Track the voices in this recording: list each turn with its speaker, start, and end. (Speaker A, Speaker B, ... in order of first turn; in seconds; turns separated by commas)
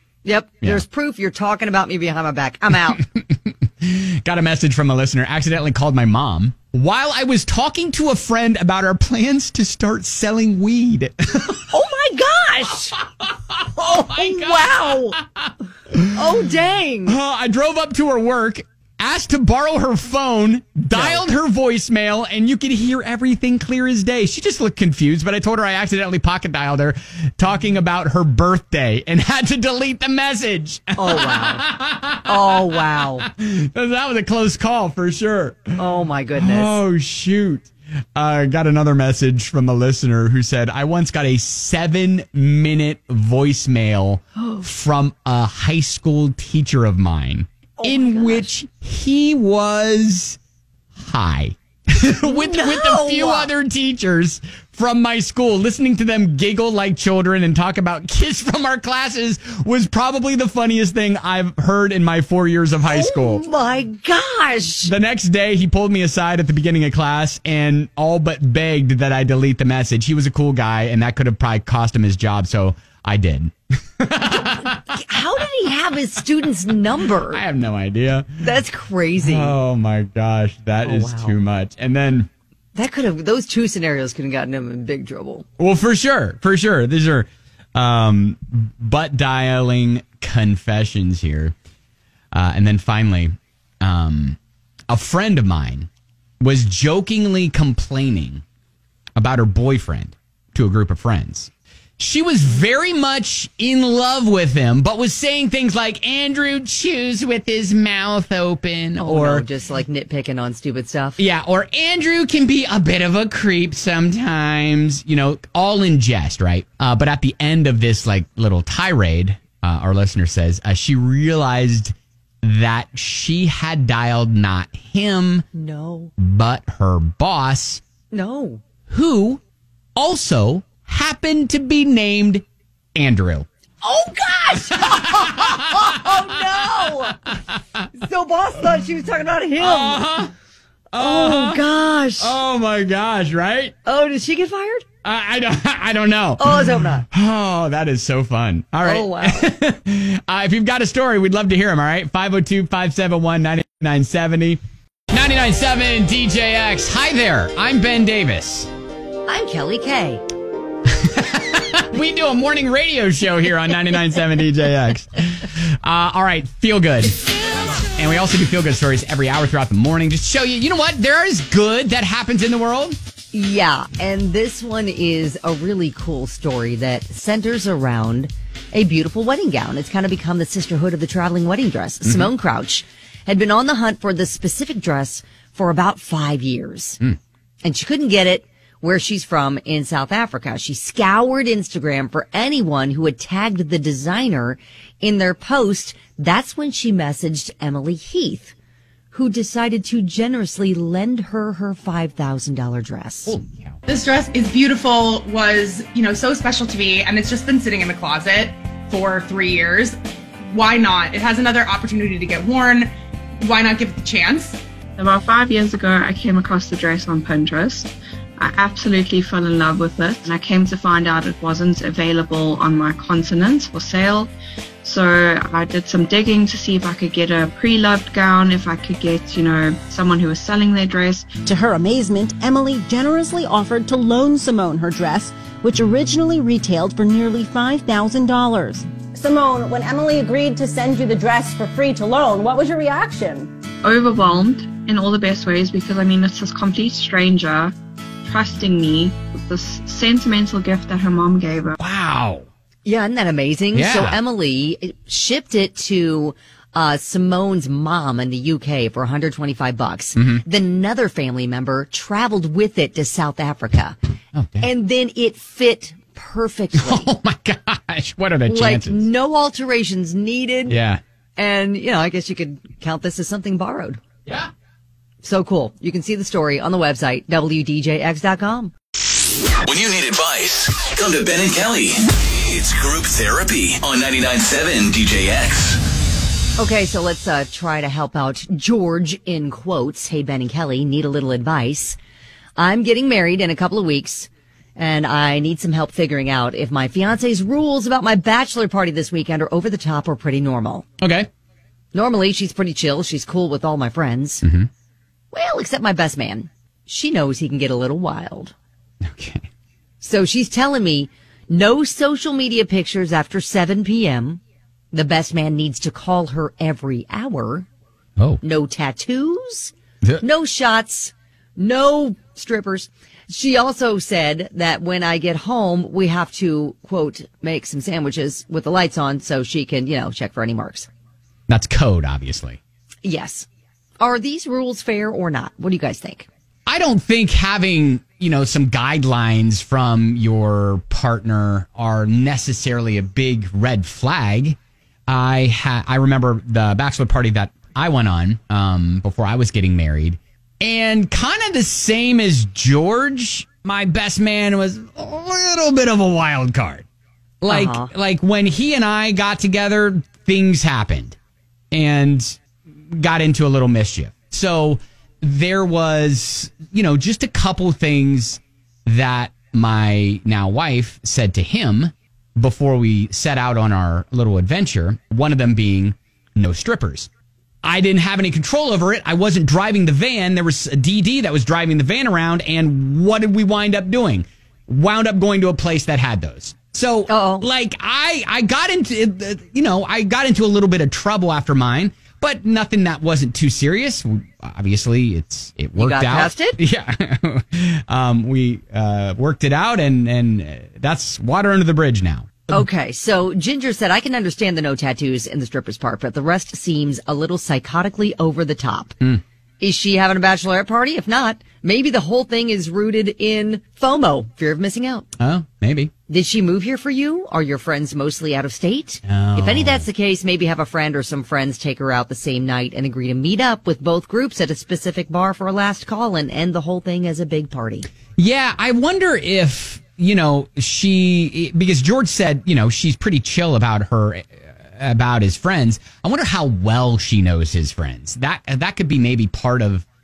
Speaker A: 0.2-3.0, Speaker B: 3.0-11.7, Speaker A: 11.7-12.9, Speaker B: 13.2-16.1, Speaker A: 13.8-15.2, Speaker A: 16.1-17.2, Speaker B: 17.1-35.8, Speaker A: 20.9-21.3, Speaker A: 31.0-31.7, Speaker A: 32.2-33.3, Speaker A: 35.8-36.7, Speaker B: 36.4-50.4, Speaker A: 44.4-44.6, Speaker A: 47.8-48.5, Speaker B: 51.0-63.4, Speaker A: 52.2-53.5, Speaker A: 62.9-64.9, Speaker B: 64.8-75.2, Speaker A: 74.3-77.4, Speaker B: 77.3-78.4, Speaker A: 78.4-79.5, Speaker B: 79.2-82.3, Speaker A: 80.8-81.4, Speaker A: 82.8-85.5, Speaker B: 85.6-91.5, Speaker B: 92.3-94.4, Speaker B: 94.9-95.9, Speaker B: 96.4-98.4, Speaker B: 99.2-109.5, Speaker A: 109.0-111.2, Speaker B: 111.2-125.5, Speaker A: 125.5-126.1, Speaker B: 126.2-127.8, Speaker A: 128.1-128.6, Speaker B: 128.9-129.4, Speaker B: 130.0-132.4, Speaker B: 133.0-133.5, Speaker A: 133.8-137.2, Speaker B: 134.7-137.9, Speaker A: 137.9-140.2, Speaker B: 139.6-140.3, Speaker B: 140.9-141.6, Speaker A: 141.0-142.4, Speaker B: 142.2-143.8, Speaker A: 143.8-144.9, Speaker B: 145.0-154.6, Speaker A: 146.4-147.1, Speaker A: 148.8-149.5, Speaker B: 155.1-158.7, Speaker A: 159.3-160.2, Speaker B: 160.9-167.2, Speaker B: 167.9-173.0, Speaker A: 173.3-187.0, Speaker A: 187.6-198.5, Speaker A: 199.1-203.3, Speaker B: 203.3-203.8, Speaker C: 203.9-214.6, Speaker D: 215.0-224.3, Speaker D: 224.8-231.3, Speaker E: 231.4-243.5, Speaker D: 243.8-247.7, Speaker D: 248.2-251.8, Speaker B: 251.8-252.5, Speaker A: 252.8-264.0, Speaker B: 253.7-254.2, Speaker B: 260.2-260.4, Speaker B: 264.3-264.7, Speaker A: 264.6-267.1, Speaker B: 266.8-269.1, Speaker A: 268.5-270.8, Speaker B: 270.7-271.0, Speaker A: 271.4-274.0, Speaker A: 275.2-278.7, Speaker F: 279.6-285.8, Speaker A: 286.6-292.0, Speaker A: 292.6-300.9, Speaker B: 301.0-301.3, Speaker A: 301.9-304.4, Speaker B: 304.4-304.7, Speaker A: 305.3-308.5, Speaker B: 309.0-309.5, Speaker A: 310.0-314.4, Speaker A: 314.9-317.7, Speaker A: 318.4-330.9, Speaker B: 331.5-332.6, Speaker A: 333.0-333.5, Speaker A: 334.0-336.3, Speaker B: 336.7-356.9, Speaker B: 357.4-361.2, Speaker A: 357.5-357.9, Speaker B: 361.7-362.4, Speaker B: 362.9-377.1, Speaker B: 377.6-402.6, Speaker A: 387.1-387.5, Speaker A: 395.8-396.6, Speaker A: 402.5-409.0, Speaker A: 409.6-415.1, Speaker B: 415.2-415.9, Speaker A: 416.1-427.9, Speaker B: 419.1-419.9, Speaker B: 428.2-439.9